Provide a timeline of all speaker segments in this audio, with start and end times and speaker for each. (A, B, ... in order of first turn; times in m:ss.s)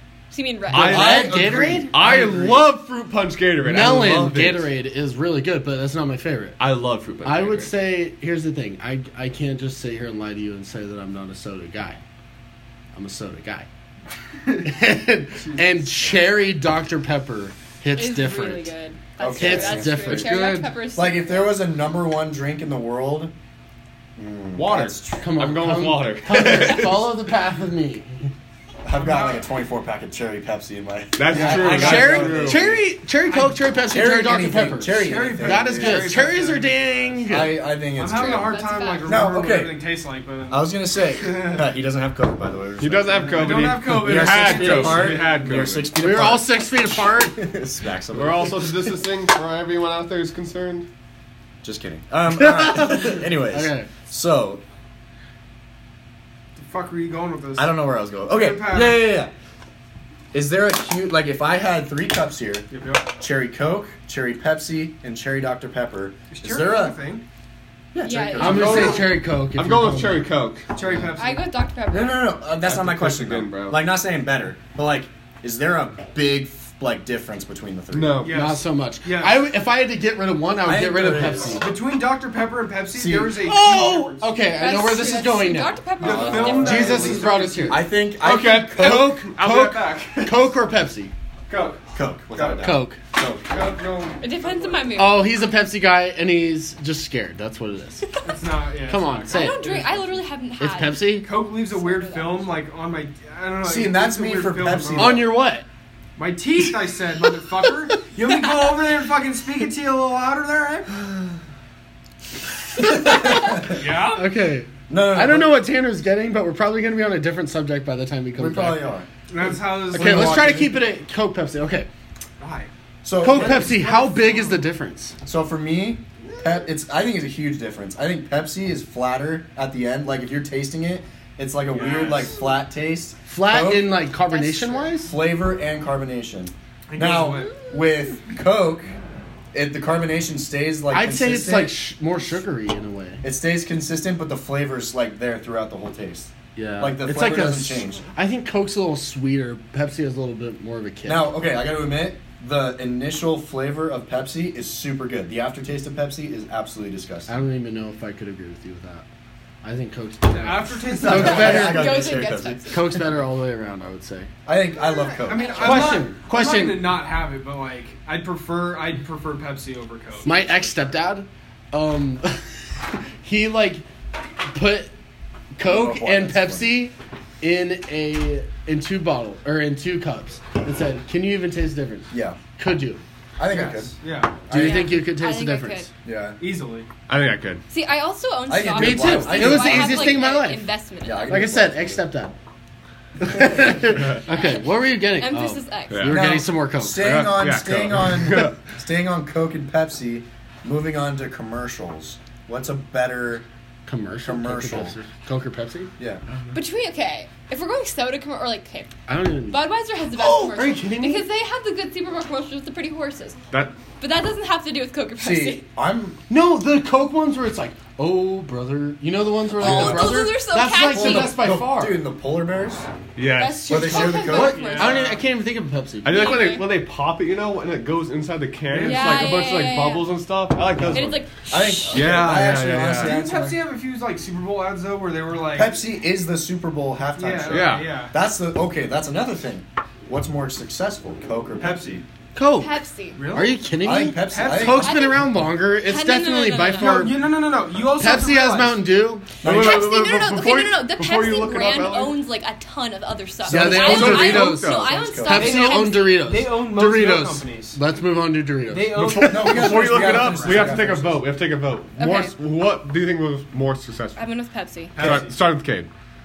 0:00.3-0:01.3 A
0:00.7-0:04.7 B
0:00.7-0:02.5 C
0:00.8-0:02.5 D
0:03.6-0:06.6 D
0:06.6-0:07.7 B
0:07.2-0:12.0 D
0:12.9-0:13.7 D
0:14.6-0:18.7 D
0:15.4-0:15.8 E
0:18.0-0:21.6 A
0:19.2-0:20.4 C
0:19.3-0:20.6 D
0:20.9-0:23.3 C
0:24.2-0:25.3 C
0:24.6-0:27.1 B
0:25.2-0:28.2 D
0:28.8-0:32.8 C
0:29.0-0:29.5 E
0:31.2-0:32.7 B
0:31.3-0:37.7 D
0:33.3-0:33.6 E
0:33.9-0:36.2 C
0:34.9-0:37.2 E
0:37.3-0:39.8 C
0:38.0-0:41.7 E
0:38.1-0:39.3 A
0:40.5-0:48.9 C
0:42.8-0:45.9 B
0:43.1-0:45.4 E
0:46.0-0:47.4 D
0:48.1-0:50.9 B
0:51.6-0:54.6 C
0:52.4-0:53.9 D
0:56.6-0:59.2 E
0:57.6-0:59.3 C
1:00.3-1:07.0 C
1:02.7-1:03.1 E
1:06.3-1:07.2 E
1:07.9-1:09.0 C
1:08.0-1:09.1 A
1:08.4-1:10.3 D
1:08.4-1:10.7 B
1:10.7-1:11.5 E
1:10.8-1:11.1 C
1:11.2-1:12.4 A
1:11.9-1:18.3 C
1:12.6-1:13.8 B
1:17.9-1:18.3 B
1:18.2-1:19.5 E
1:18.3-1:21.7 D
1:20.6-1:21.6 C
1:21.6-1:24.3 E
1:22.9-1:23.5 C
1:23.4-1:25.8 D
1:24.6-1:27.1 A
1:26.0-1:27.9 E
1:26.0-1:29.2 C
1:26.6-1:27.9 D
1:28.2-1:30.6 B
1:28.8-1:31.1 D
1:31.5-1:34.3 B
1:31.9-1:33.5 C
1:32.6-1:33.0 D
1:34.2-1:35.4 A
1:34.4-1:34.9 E
1:35.0-1:38.1 D
1:38.2-1:40.2 E
1:38.9-1:39.7 D
1:39.3-1:42.6 A
1:40.6-1:41.3 D
1:41.2-1:45.3 E
1:43.6-1:45.3 C
1:45.0-1:45.6 D
1:46.2-1:50.9 E
1:52.8-1:53.8 C
1:52.9-1:53.5 D
1:53.6-1:54.3 E
1:54.1-1:58.9 D
1:54.9-1:55.6 C
1:58.4-1:59.1 C
1:59.3-2:00.8 E
1:59.9-2:01.9 D
2:02.4-2:02.7 E
2:03.0-2:03.8 C
2:03.2-2:05.2 D
2:03.2-2:04.6 E
2:05.2-2:14.0 C
2:06.3-2:06.6 E
2:11.7-2:12.4 E
2:13.3-2:15.2 D
2:14.3-2:15.0 A
2:15.0-2:18.9 C
2:16.9-2:17.6 E
2:19.5-2:21.8 C
2:20.9-2:23.2 D
2:23.2-2:28.0 C
2:26.6-2:31.3 D
2:31.0-2:37.3 C
2:37.3-2:39.1 D
2:39.6-2:42.2 D
2:40.3-2:41.9 E
2:40.9-2:43.0 C
2:41.1-2:42.9 A
2:42.7-2:44.3 D
2:44.5-2:46.0 C
2:44.8-2:46.0 A
2:45.2-2:50.6 E
2:45.6-2:47.0 D
2:50.2-2:53.8 D
2:54.4-2:54.9 D
2:55.6-3:03.0 D
2:55.6-2:56.9 C
3:02.1-3:02.4 C
3:03.4-3:04.0 C
3:03.5-3:04.4 E
3:04.5-3:05.0 C
3:04.5-3:05.9 D
3:04.5-3:05.9 A
3:06.0-3:06.4 C
3:06.4-3:06.9 E
3:07.1-3:07.6 B
3:07.7-3:11.3 A
3:08.5-3:10.3 C
3:08.8-3:10.7 D
3:11.0-3:12.1 C
3:11.3-3:12.3 D
3:13.2-3:17.1 D
3:13.3-3:13.7 C
3:13.9-3:14.2 B
3:14.3-3:16.2 A
3:15.9-3:16.2 B
3:16.1-3:23.5 C
3:17.0-3:18.6 B
3:23.9-3:25.9 D
3:24.2-3:25.0 C
3:26.0-3:26.2 C
3:26.5-3:28.9 A
3:29.1-3:31.3 D
3:29.5-3:33.4 A
3:34.0-3:35.7 A
3:35.2-3:36.2 C
3:36.3-3:42.0 D
3:39.6-3:41.5 A
3:39.6-3:40.1 B
3:39.7-3:40.0 C
3:40.8-3:42.9 C
3:43.2-3:44.2 B
3:43.4-3:45.2 A
3:43.7-3:44.8 C
3:44.2-3:45.2 E
3:44.2-3:46.4 D
3:46.0-3:51.3 B
3:46.1-3:46.7 A
3:48.7-3:49.3 E
3:48.8-3:50.1 A
3:50.9-3:52.1 A
3:51.5-3:53.6 C
3:51.9-3:53.2 B
3:53.0-3:55.8 E
3:55.5-4:02.0 C
3:57.2-3:58.2 E
3:57.5-3:57.9 B
4:01.6-4:02.0 E
4:02.4-4:02.8 D
4:02.6-4:03.2 A
4:03.2-4:03.6 E
4:03.3-4:07.3 D
4:03.8-4:05.0 C
4:04.3-4:05.0 E
4:04.8-4:07.1 A
4:06.8-4:08.8 E
4:07.9-4:09.3 D
4:09.4-4:09.9 C
4:09.4-4:12.2 B
4:09.4-4:16.2 A
4:13.4-4:15.5 C
4:13.5-4:19.6 D
4:13.5-4:15.0 B
4:15.3-4:17.8 E
4:18.7-4:20.9 E
4:19.0-4:24.2 B
4:19.1-4:21.3 C
4:22.0-4:22.3 A
4:24.2-4:25.0 A
4:25.0-4:25.4 E
4:25.0-4:25.9 B